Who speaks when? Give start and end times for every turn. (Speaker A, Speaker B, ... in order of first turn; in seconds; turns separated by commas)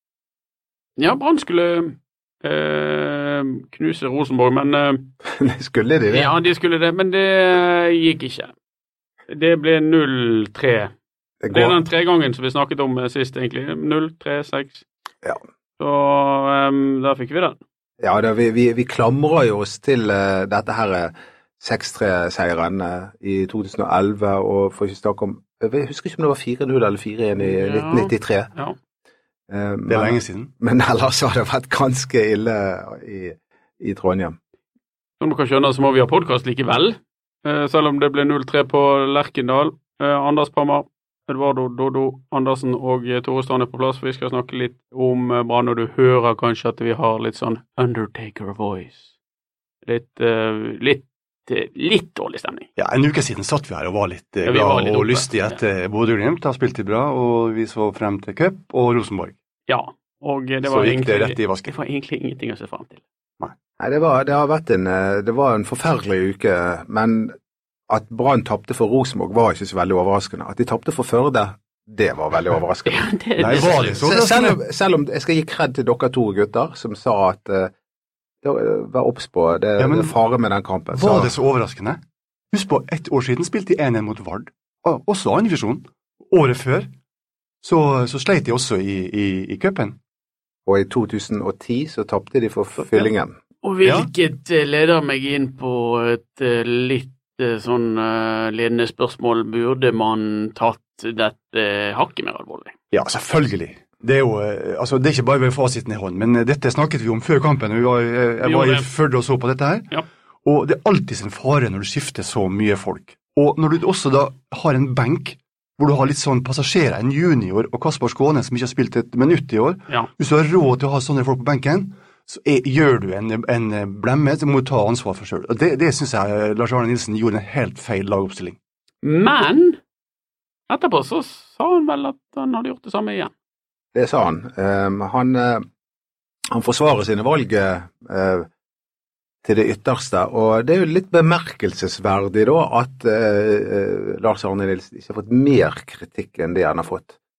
Speaker A: 1.0-5.1, Speaker B: 5.3-6.3, Speaker A: 6.1-8.5, Speaker A: 9.3-10.9, Speaker B: 11.4-11.8, Speaker A: 11.5-14.8, Speaker A: 15.8-17.6, Speaker B: 18.0-28.5, Speaker A: 27.4-28.8, Speaker B: 29.5-34.4, Speaker C: 29.9-30.5, Speaker A: 35.2-49.1, Speaker A: 49.9-52.7, Speaker C: 52.8-59.3, Speaker A: 54.5-55.6, Speaker A: 59.7-63.0, Speaker C: 60.6-61.7, Speaker B: 63.8-67.3, Speaker B: 67.9-73.0, Speaker A: 72.8-74.0, Speaker C: 73.4-74.6, Speaker B: 74.0-77.7, Speaker B: 78.4-81.3, Speaker C: 79.8-80.1, Speaker C: 80.9-82.0, Speaker C: 82.5-86.9, Speaker C: 87.6-90.0, Speaker B: 90.7-93.3, Speaker A: 93.6-102.7, Speaker C: 102.9-109.9, Speaker A: 108.4-108.9, Speaker C: 110.4-128.6, Speaker A: 129.0-129.8, Speaker A: 130.7-133.3, Speaker B: 133.9-135.6, Speaker B: 136.5-138.5, Speaker B: 139.4-147.1